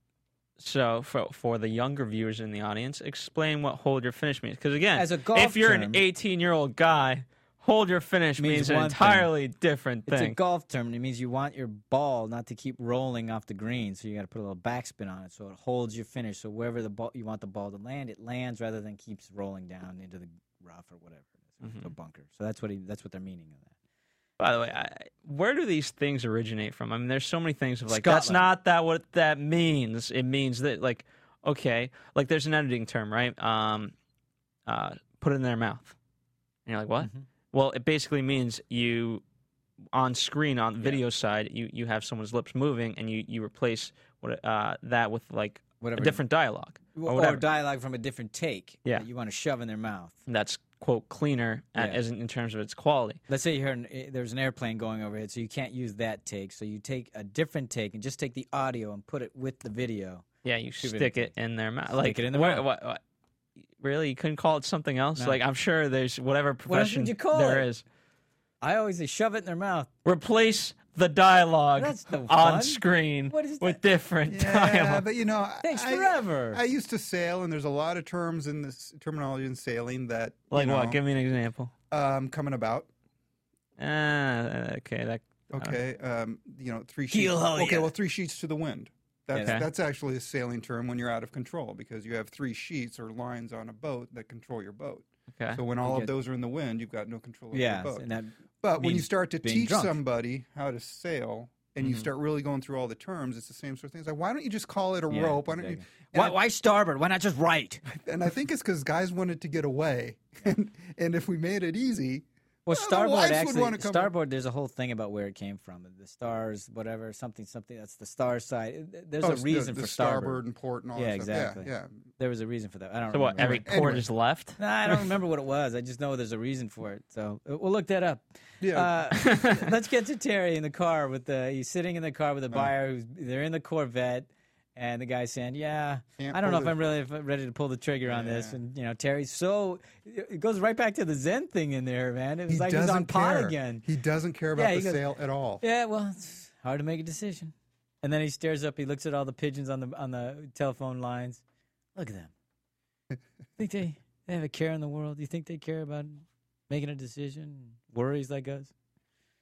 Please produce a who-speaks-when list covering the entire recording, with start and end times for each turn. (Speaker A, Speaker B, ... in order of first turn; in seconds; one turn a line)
Speaker A: 0.6-10.4
Speaker B: 5.0-6.0
Speaker B: 8.4-9.3
Speaker B: 10.1-23.7
Speaker A: 21.6-21.9
Speaker A: 24.4-33.9
Speaker B: 27.9-28.5
Speaker A: 34.7-35.9
Speaker A: 36.6-39.2
Speaker A: 39.9-47.4
Speaker B: 45.8-46.2
Speaker B: 46.9-50.1
Speaker A: 50.3-53.2
Speaker B: 53.3-60.2
Speaker A: 60.4-63.0
Speaker B: 60.8-61.3
Speaker B: 61.9-62.6
Speaker A: 63.8-67.8
Speaker B: 66.7-67.7
Speaker B: 68.6-69.9
Speaker A: 70.0-75.0
Speaker B: 71.8-73.8
Speaker C: 74.3-81.0
Speaker B: 75.6-76.6
Speaker A: 80.5-81.7
Speaker C: 81.9-82.9
Speaker A: 83.8-85.8
Speaker C: 85.5-98.1
Speaker B: 87.1-87.9
Speaker B: 89.3-89.6
Speaker A: 89.4-89.6
Speaker A: 95.3-95.6
Speaker B: 95.8-96.1
Speaker B: 97.5-100.0
Speaker C: 98.6-106.4
Speaker A: 101.8-102.1
Speaker B: 105.1-107.8
Speaker C: 107.9-114.1
Speaker B: 112.7-120.4
Speaker C: 119.2-122.0
Speaker B: 120.9-123.7
Speaker A: 123.1-124.6
Speaker C: 123.4-124.0
Speaker B: 124.6-143.8
Speaker C: 128.6-129.1
Speaker A: 129.2-129.7
Speaker C: 136.2-136.8
Speaker C: 138.1-138.6
Speaker C: 142.5-145.6
Speaker B: 144.5-145.0
Speaker B: 145.6-151.4
Speaker B: 151.9-152.3
Speaker B: 153.6-158.7